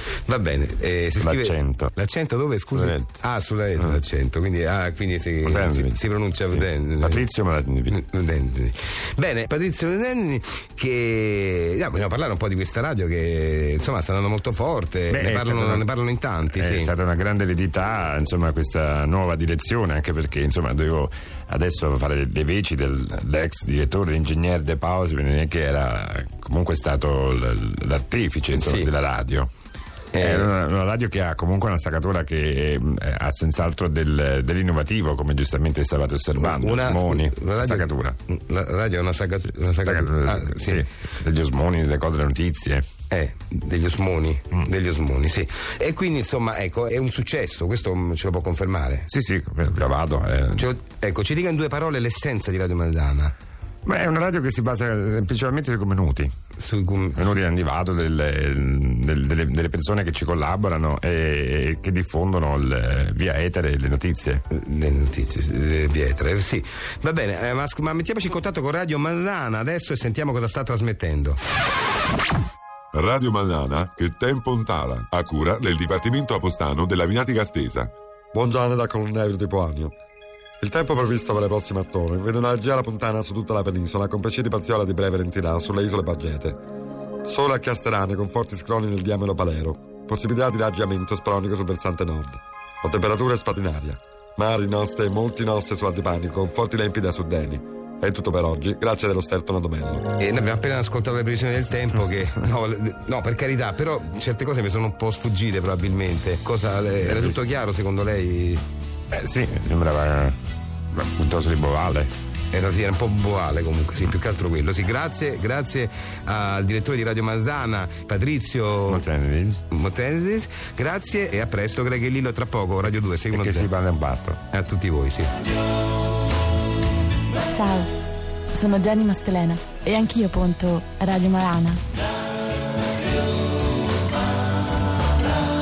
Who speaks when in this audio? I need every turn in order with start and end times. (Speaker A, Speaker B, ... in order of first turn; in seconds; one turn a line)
Speaker A: 0.2-7.3
Speaker B: 1.2-1.9
Speaker B: 2.7-3.1
Speaker B: 5.4-8.0
Speaker A: 7.9-16.9
Speaker B: 15.1-15.9
Speaker B: 16.5-29.5
Speaker A: 28.5-28.9
Speaker A: 30.1-30.5
Speaker B: 30.1-38.2
Speaker A: 36.3-40.8
Speaker B: 39.6-42.8
Speaker A: 43.1-49.0
Speaker B: 49.1-50.7
Speaker A: 50.5-53.3
Speaker B: 53.9-56.3
Speaker A: 56.6-57.2
Speaker B: 57.1-64.4
Speaker A: 64.5-71.4
Speaker C: 72.9-75.9
Speaker D: 73.2-74.2
Speaker D: 75.9-76.9
Speaker C: 76.5-77.8
Speaker C: 78.3-79.9
Speaker C: 80.6-86.6
Speaker C: 87.2-100.1
Speaker A: 100.2-108.6
Speaker B: 107.0-107.4
Speaker B: 109.1-110.3
Speaker B: 110.9-112.1
Speaker A: 112.5-119.0
Speaker B: 118.9-119.6
Speaker A: 119.7-123.7
Speaker B: 123.3-124.4
Speaker A: 124.5-125.3
Speaker E: 127.6-127.8
Speaker E: 128.5-131.8